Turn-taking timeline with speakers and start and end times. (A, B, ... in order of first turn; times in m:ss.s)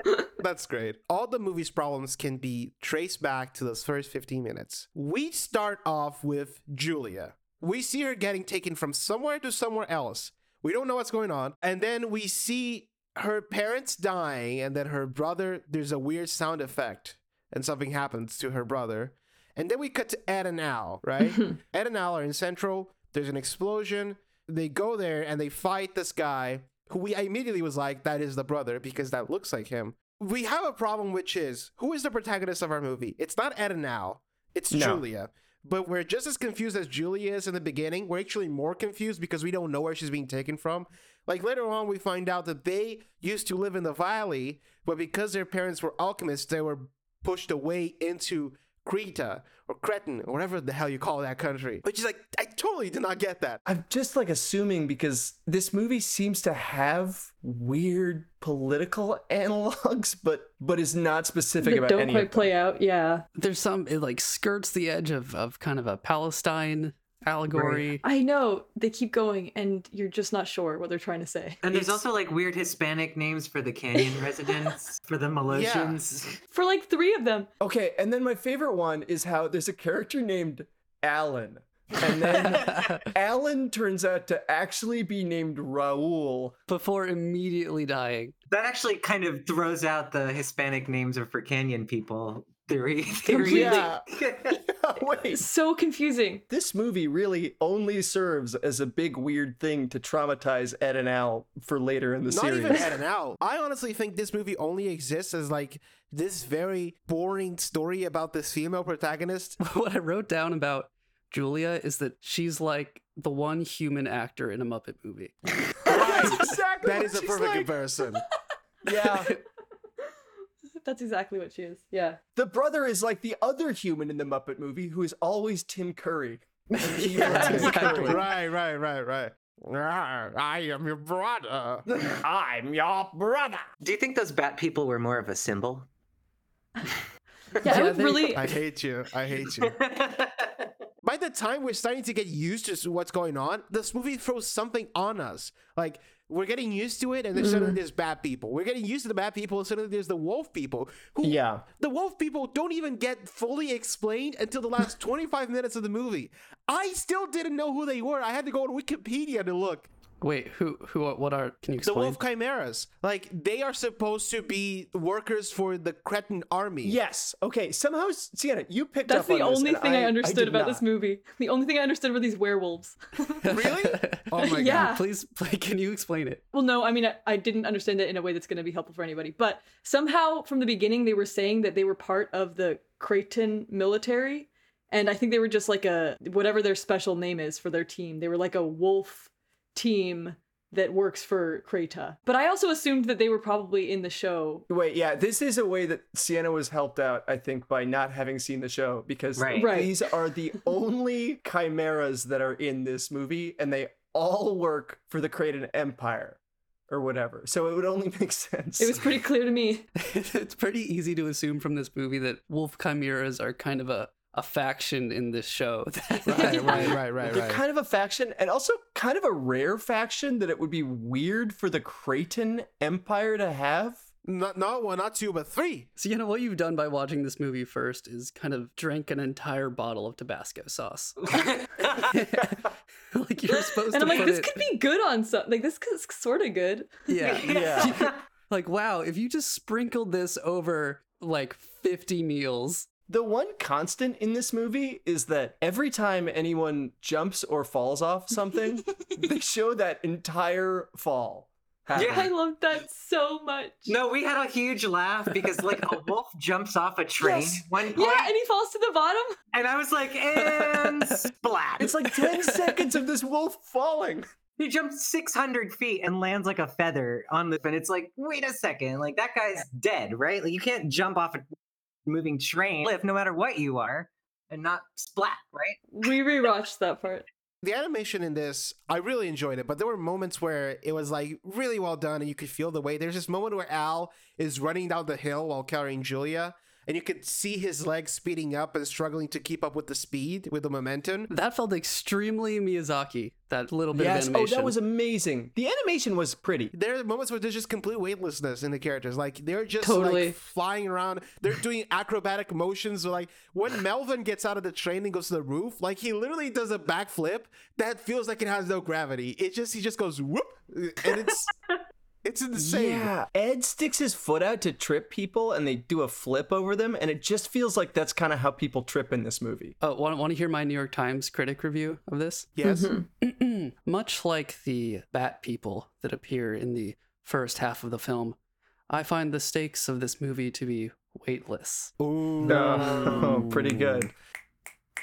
0:00.4-0:53.6 A
0:34.7-0:35.0 B
0:53.7-1:02.5 B
1:01.6-1:03.3 C
1:03.4-1:08.0 D
1:08.0-1:12.0 C
1:11.6-1:16.4 E
1:15.5-1:16.0 A
1:16.5-1:17.5 C
1:17.6-1:26.6 B
1:22.6-1:23.1 D
1:26.7-1:28.3 D
1:28.5-1:34.6 E
1:33.3-1:33.9 C
1:33.4-1:35.4 B
1:35.3-1:36.4 C
1:36.5-1:42.9 B
1:42.3-1:49.6 A
1:49.6-1:56.3 D
1:55.9-1:57.7 B
1:55.9-1:58.2 A
1:58.8-1:59.3 B
2:00.8-2:02.2 C
2:02.4-2:08.2 B
2:07.2-2:08.2 D
2:07.3-2:07.9 C
2:07.3-2:11.9 A
2:11.9-2:13.6 B
2:13.8-2:15.9 E
2:17.6-2:18.6 C
2:17.7-2:19.8 A
2:17.7-2:18.1 D
2:19.6-2:20.7 E
2:21.0-2:39.9 A
2:27.4-2:27.8 C
2:31.2-2:31.6 B
2:40.2-2:42.2 D
2:41.8-2:47.0 A
2:46.8-2:50.8 B
2:49.1-2:53.4 C
2:53.4-2:56.4 D
2:53.5-2:55.0 A
2:54.4-2:55.0 C
2:56.5-3:14.7 C
3:14.7-3:29.1 B
3:19.4-3:19.9 E
3:19.6-3:19.9 C
3:28.8-3:29.9 C
3:30.0-3:37.0 D
3:36.3-3:37.0 C
3:36.3-3:37.6 A
3:37.2-3:44.0 B
3:44.2-3:45.9 A
3:46.0-3:54.6 D
3:51.3-3:52.0 E
3:53.7-3:57.4 C
3:57.1-4:02.9 D
3:57.2-3:58.2 E
3:57.5-3:58.0 B
4:03.1-4:12.3 B
4:11.9-4:12.3 E
4:12.0-4:14.0 C
4:13.9-4:18.4 E
4:17.2-4:19.4 C
4:19.5-4:22.2 E
4:20.4-4:21.3 D
4:21.8-4:24.3 B
4:22.3-4:22.9 D
4:24.6-4:31.5 E
4:32.1-4:36.1 E
4:35.9-4:37.2 C
4:37.6-4:51.3 A
4:51.3-4:54.8 D
4:53.9-4:56.7 B
4:56.7-5:11.5 A
4:59.8-5:00.4 C
5:12.2-5:13.1 A
5:12.6-5:19.8 B
5:19.8-5:22.6 D
5:22.6-5:23.0 A
5:22.6-5:23.1 C
5:23.2-5:28.4 D
5:28.9-5:34.1 D
5:32.0-5:33.3 A
5:32.4-5:34.1 B
5:32.8-5:33.2 E